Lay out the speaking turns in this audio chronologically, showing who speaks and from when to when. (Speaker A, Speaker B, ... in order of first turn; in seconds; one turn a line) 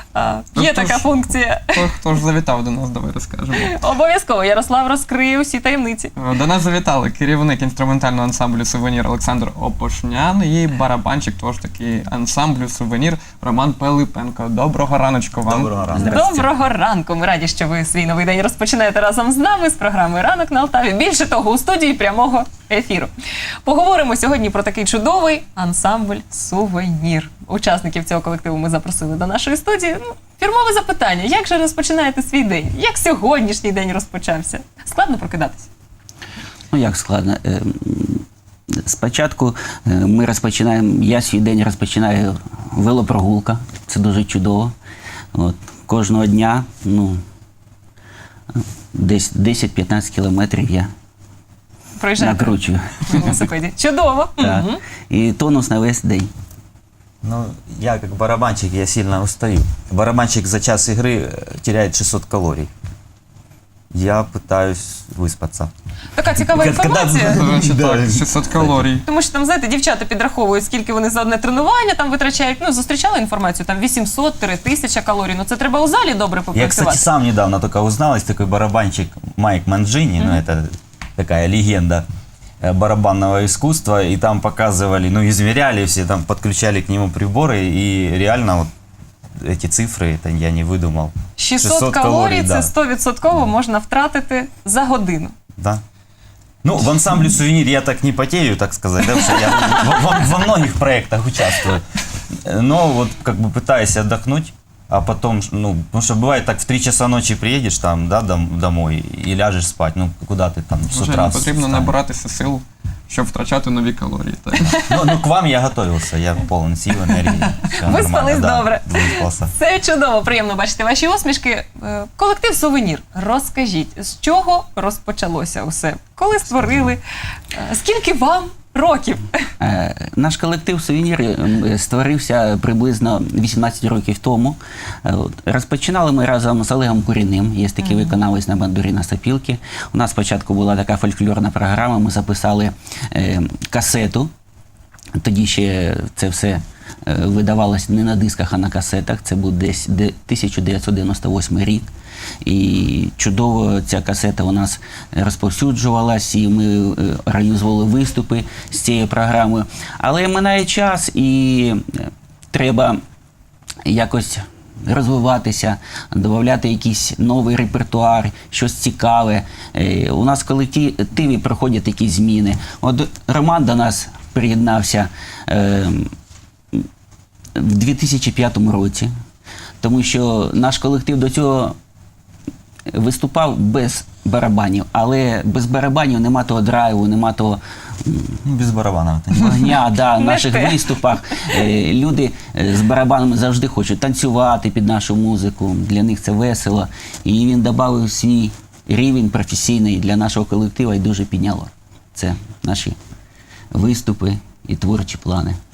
Speaker A: 0.1-1.7
Speaker B: 0.6-1.2
Speaker B: 1.7-3.7
Speaker A: 3.5-6.1
Speaker B: 6.2-15.7
Speaker C: 15.4-16.2
Speaker D: 15.9-16.5
Speaker A: 16.0-23.1
Speaker A: 23.6-35.7
Speaker D: 36.7-38.2
Speaker D: 38.8-44.7
Speaker D: 45.3-47.2
Speaker D: 48.6-50.9
Speaker A: 52.0-54.8
Speaker D: 52.2-53.4
Speaker D: 54.4-56.3
Speaker C: 57.2-62.7
Speaker C: 63.9-65.7
Speaker A: 66.2-67.5
Speaker C: 66.4-68.9
Speaker B: 67.3-69.0
Speaker A: 69.0-77.1
Speaker C: 76.5-82.0
Speaker C: 82.6-88.7
Speaker C: 89.4-92.7
Speaker A: 91.4-95.3
Speaker C: 95.6-95.8
Speaker C: 96.6-112.0
Speaker B: 110.9-114.8
Speaker A: 114.7-115.0
Speaker C: 114.8-119.5
Speaker A: 117.8-127.0
Speaker A: 127.5-129.2
Speaker D: 129.6-144.3
Speaker A: 137.8-138.1
Speaker D: 145.2-151.9
Speaker D: 152.4-163.0
Speaker D: 163.8-176.1
Speaker D: 177.6-179.1
Speaker D: 179.8-181.8
Speaker D: 182.9-188.4
Speaker C: 188.4-189.8
Speaker D: 189.3-203.0
Speaker A: 190.1-191.6
Speaker D: 203.7-205.6